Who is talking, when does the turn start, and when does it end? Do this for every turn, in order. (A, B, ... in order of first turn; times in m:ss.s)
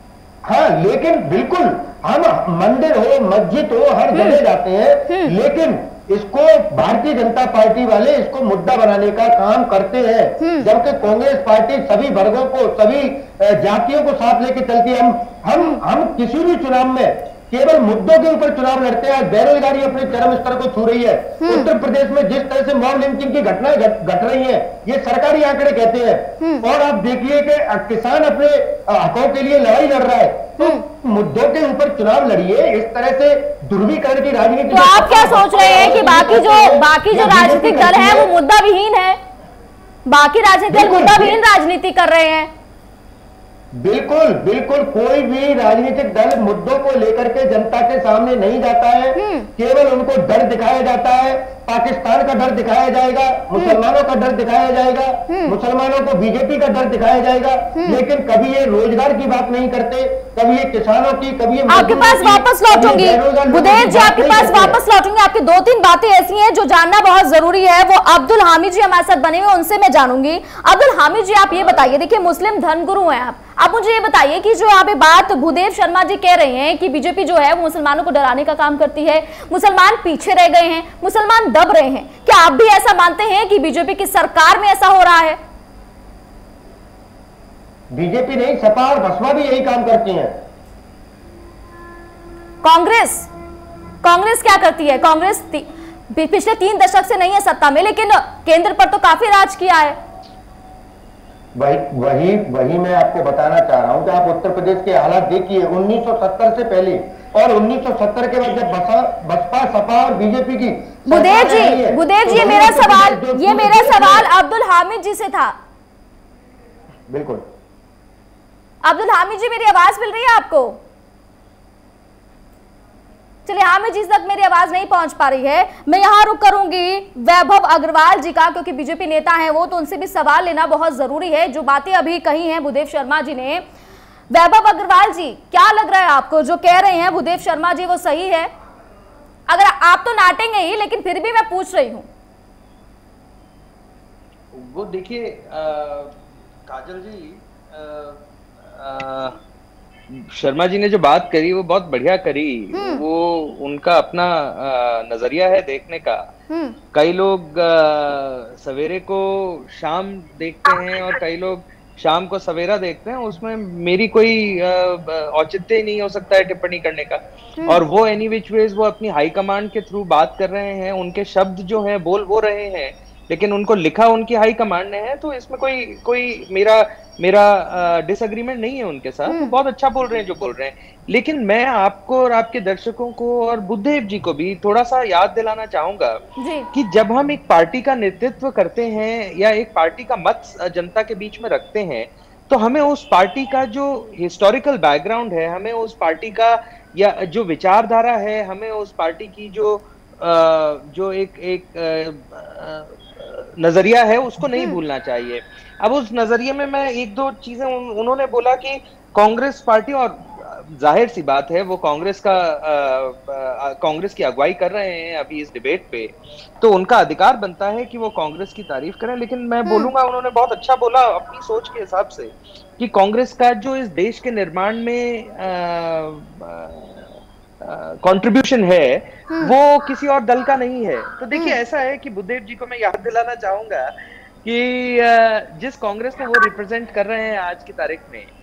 0:00.4-0:38.3 A
0:05.1-0:05.3 B
0:10.4-0:10.7 B
0:21.4-0:21.7 B
0:30.6-0:30.8 B
0:34.7-0:39.2 B
0:40.1-0:42.5 B
0:40.7-0:41.4 A
0:43.8-1:04.8 A
0:49.2-0:49.5 B
0:55.3-0:55.6 B
1:01.7-1:25.4 B
1:27.9-1:30.4 A
1:32.6-1:33.3 B
1:34.0-1:40.0 B
1:41.6-1:54.3 A
1:51.1-1:55.6 B
1:57.1-1:57.5 A
1:58.8-2:00.8 B
2:03.5-2:13.6 B
2:14.3-2:18.5 B
2:19.5-2:22.1 B
2:24.5-2:29.4 C
2:30.1-2:36.3 C
2:32.7-2:33.0 B
2:36.9-3:06.2 C
2:59.3-2:59.5 B
3:06.4-3:06.7 B
3:06.7-3:47.1 C
3:47.6-3:53.9 C
3:54.4-3:58.3 C